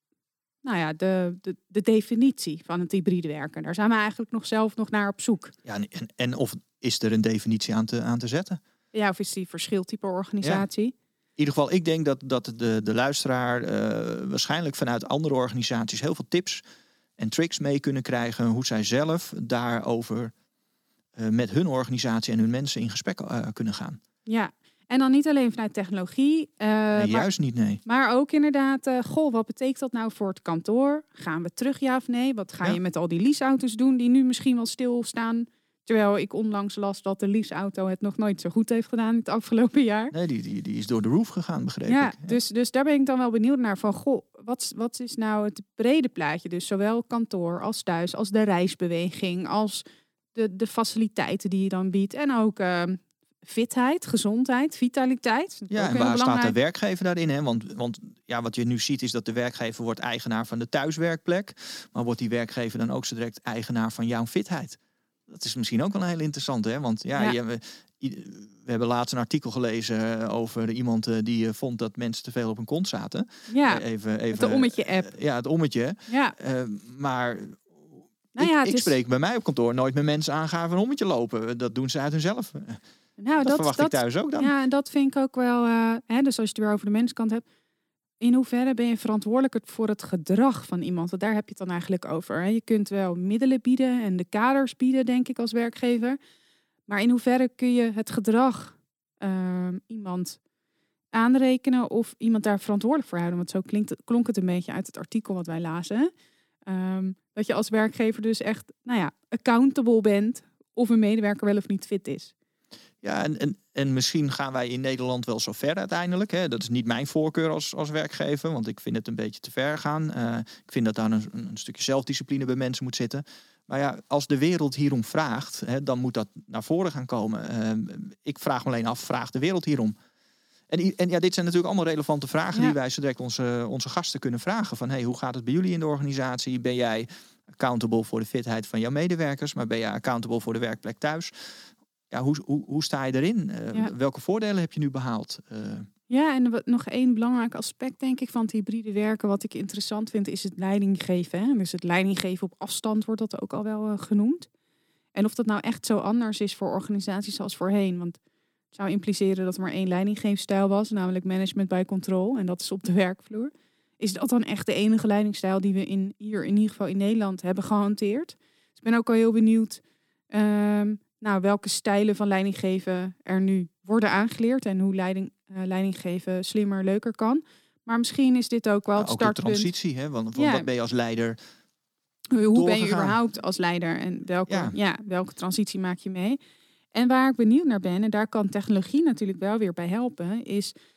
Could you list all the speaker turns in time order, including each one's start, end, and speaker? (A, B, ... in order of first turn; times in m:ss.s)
0:00.6-0:05.5 A
0:05.6-0:08.6 B
0:08.9-0:10.9 A
0:11.4-0:16.6 B
0:17.2-0:20.3 B
0:21.2-0:24.0 B
0:24.2-0:27.3 A
0:26.9-0:27.8 B
0:27.8-0:40.1 A
0:40.1-0:42.4 B
0:41.9-0:49.8 A
0:50.3-0:56.6 A
0:55.7-1:22.8 B
1:13.5-1:15.1 A
1:16.1-1:16.4 A
1:18.3-1:18.9 A
1:23.2-1:27.4 A
1:23.4-1:24.5 B
1:28.2-1:36.2 A
1:36.9-1:40.4 A
1:41.1-1:46.1 A
1:46.6-1:52.3 A
1:53.0-2:09.9 B
2:10.7-2:21.3 B
2:22.1-2:25.9 B
2:26.1-2:34.5 A
2:35.1-2:38.2 A
2:38.7-2:49.8 A
2:50.3-2:59.7 A
2:59.0-3:01.4 B
3:00.3-3:00.7 A
3:02.3-3:06.4 A
3:02.5-3:03.2 B
3:04.5-3:04.8 B
3:06.9-3:10.7 A